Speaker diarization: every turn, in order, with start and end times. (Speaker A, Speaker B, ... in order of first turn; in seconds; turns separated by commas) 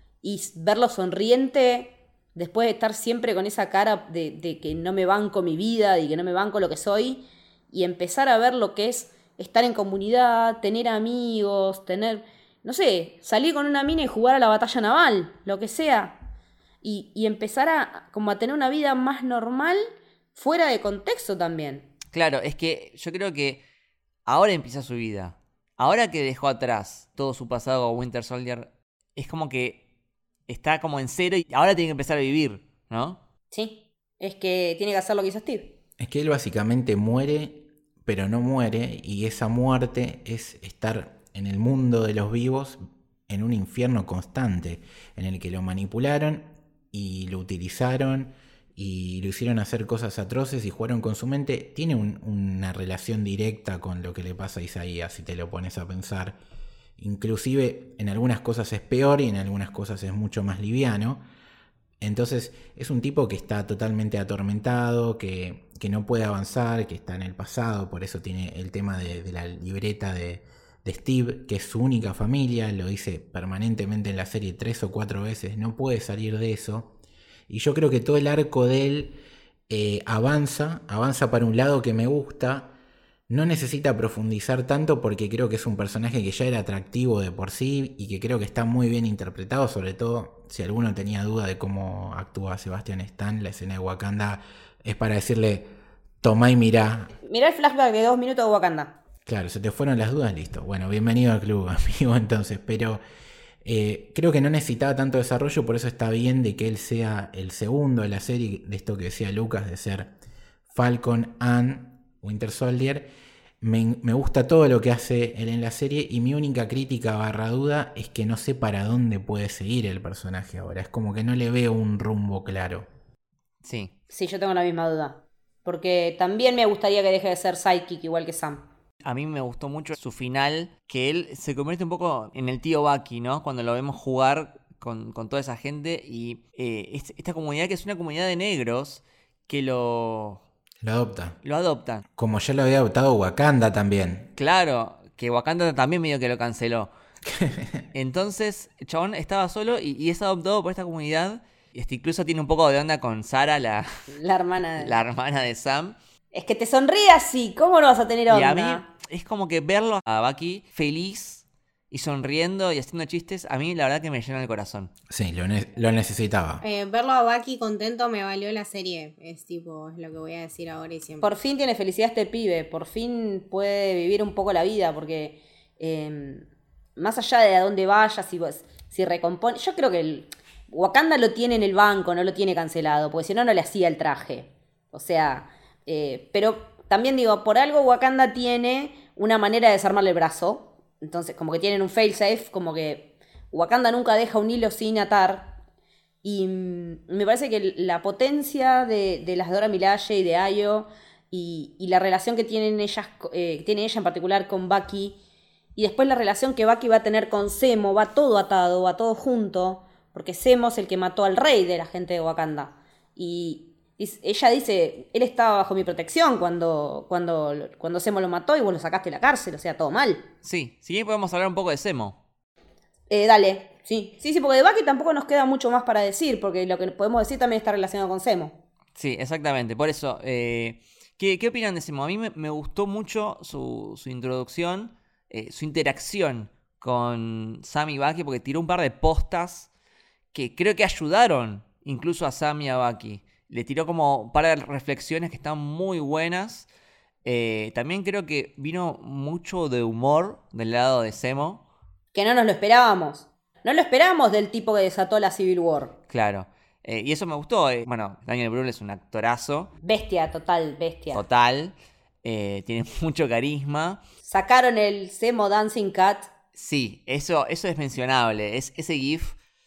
Speaker A: 0.2-16.2, Speaker A: 16.8-21.9, Speaker B: 22.1-23.6, Speaker B: 24.3-29.8, Speaker B: 30.5-33.2, Speaker A: 33.5-35.8, Speaker C: 36.0-56.4, Speaker C: 57.0-61.2, Speaker C: 62.0-76.9, Speaker C: 77.5-82.7, Speaker C: 83.3-95.7, Speaker C: 96.2-97.1, Speaker A: 97.2-99.0, Speaker C: 99.2-103.0, Speaker C: 103.6-110.1, Speaker C: 110.7-122.9, Speaker B: 123.6-123.9, Speaker A: 124.1-128.7, Speaker B: 129.0-140.4, Speaker C: 140.8-141.4, Speaker B: 141.4-142.0, Speaker C: 142.2-144.3, Speaker B: 144.4-146.9, Speaker C: 147.2-147.8, Speaker B: 147.9-154.1, Speaker A: 154.1-154.9, Speaker B: 154.8-155.9, Speaker A: 156.3-158.8, Speaker B: 158.3-164.9, Speaker C: 165.1-166.6, Speaker D: 166.6-171.3, Speaker A: 171.2-176.4, Speaker A: 177.0-195.6, Speaker A: 196.2-205.2, Speaker A: 205.8-220.3, Speaker B: 220.4-222.2, Speaker A: 223.1-228.6, Speaker B: 228.9-239.7, Speaker B: 240.3-246.7, Speaker B: 247.2-251.6, Speaker A: 252.1-255.9, Speaker B: 256.1-259.7, Speaker A: 259.8-261.2, Speaker B: 261.1-264.0, Speaker A: 264.2-266.3, Speaker B: 266.6-269.4